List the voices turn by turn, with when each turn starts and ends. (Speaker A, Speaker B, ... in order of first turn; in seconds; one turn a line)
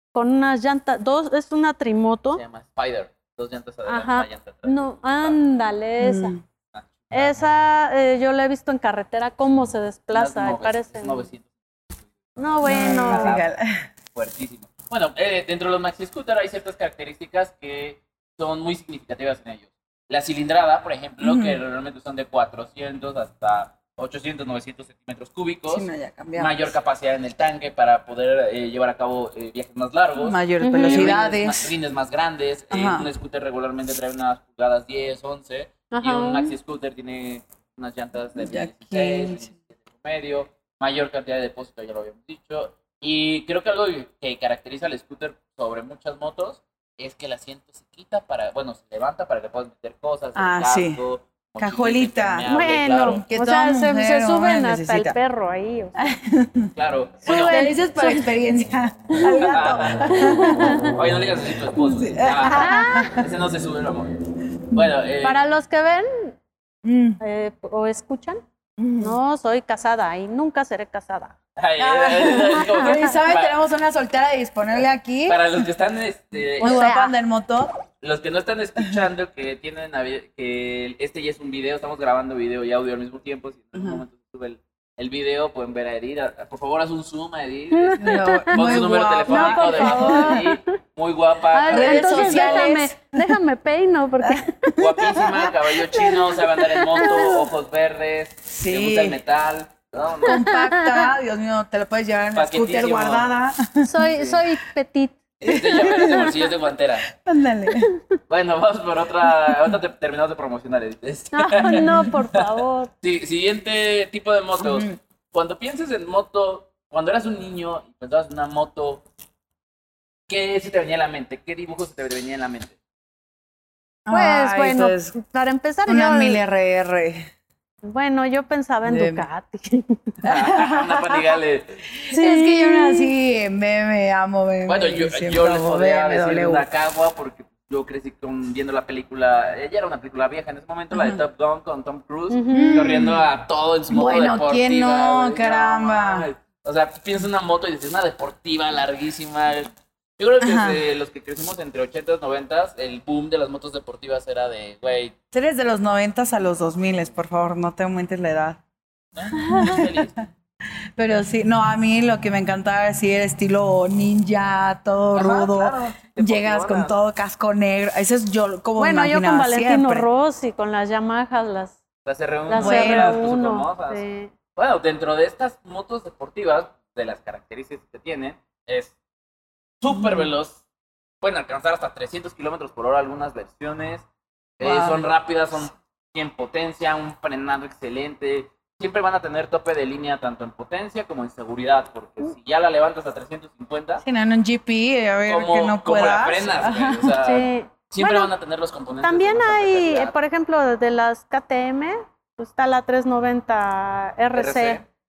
Speaker A: 0.1-2.4
Speaker B: 2.3-5.4
Speaker A: 3.9-6.3
Speaker C: 6.0-6.4
Speaker B: 6.7-7.4
Speaker A: 7.1-11.3
Speaker B: 10.1-13.4
Speaker A: 12.4-13.4
Speaker C: 12.6-13.8
Speaker B: 14.1-53.2
Speaker C: 21.2-21.6
Speaker C: 25.7-26.7
Speaker C: 30.2-31.7
Speaker A: 30.6-31.1
Speaker C: 32.7-33.1
Speaker A: 35.9-36.5
Speaker C: 38.4-39.5
Speaker C: 50.4-51.0
Speaker C: 51.6-52.5
Speaker A: 52.5-56.1
Speaker C: 53.0-55.1
Speaker C: 56.0-56.7
Speaker B: 56.8-57.6
Speaker C: 57.2-60.8
Speaker A: 57.5-58.3
Speaker A: 59.1-61.0
Speaker B: 59.5-64.2
Speaker C: 61.8-63.2
Speaker A: 62.5-63.2
Speaker B: 64.7-65.4
Speaker A: 65.2-66.4
Speaker C: 66.8-67.2
Speaker A: 67.2-68.4
Speaker C: 68.8-69.2
Speaker A: 69.0-71.3
Speaker B: 71.5-73.5
Speaker C: 71.8-75.4
Speaker B: 75.2-76.9
Speaker A: 76.6-77.1
Speaker C: 76.6-77.7
Speaker B: 78.0-92.8
Speaker A: 87.7-90.7
Speaker C: 88.0-90.4
Speaker A: 91.5-94.5
Speaker C: 91.7-93.3
Speaker C: 94.2-96.2
Speaker B: 94.8-100.5
Speaker A: 96.5-97.4
Speaker C: 98.5-99.2
Speaker C: 100.2-103.9
Speaker A: 100.2-101.1
Speaker B: 102.3-103.3
Speaker A: 103.8-105.2
Speaker B: 104.1-104.4
Speaker B: 105.4-107.1
Speaker C: 105.5-106.5
Speaker C: 107.1-107.9
Speaker B: 108.3-112.5
Speaker C: 109.5-109.7
Speaker A: 111.3-112.9
Speaker C: 111.6-112.1
Speaker B: 113.0-119.0
Speaker C: 114.6-115.0
Speaker B: 120.3-122.8
Speaker C: 124.0-125.1
Speaker A: 124.1-126.4
Speaker C: 125.9-127.3
Speaker A: 127.8-130.1
Speaker C: 128.8-129.3
Speaker B: 130.2-132.0
Speaker C: 130.2-131.3
Speaker C: 132.1-136.7
Speaker A: 132.1-133.1
Speaker B: 134.7-155.1
Speaker C: 140.9-141.2
Speaker A: 142.3-143.0
Speaker C: 142.5-143.3
Speaker C: 143.9-146.3
Speaker C: 150.4-150.8
Speaker C: 155.3-158.6
Speaker B: 159.1-160.3
Speaker C: 159.3-160.1
Speaker A: 159.3-159.8
Speaker C: 161.0-170.1
Speaker B: 165.1-166.9
Speaker A: 168.8-171.8
Speaker B: 172.0-174.0
Speaker A: 172.5-174.3
Speaker C: 172.6-173.2
Speaker B: 174.5-178.9
Speaker B: 179.8-180.6
Speaker C: 179.9-180.3
Speaker B: 181.2-184.1
Speaker B: 184.6-194.0
Speaker C: 184.6-185.1
Speaker C: 194.0-197.1
Speaker B: 195.2-200.1
Speaker A: 197.2-198.3
Speaker A: 199.0-204.8
Speaker B: 204.3-204.8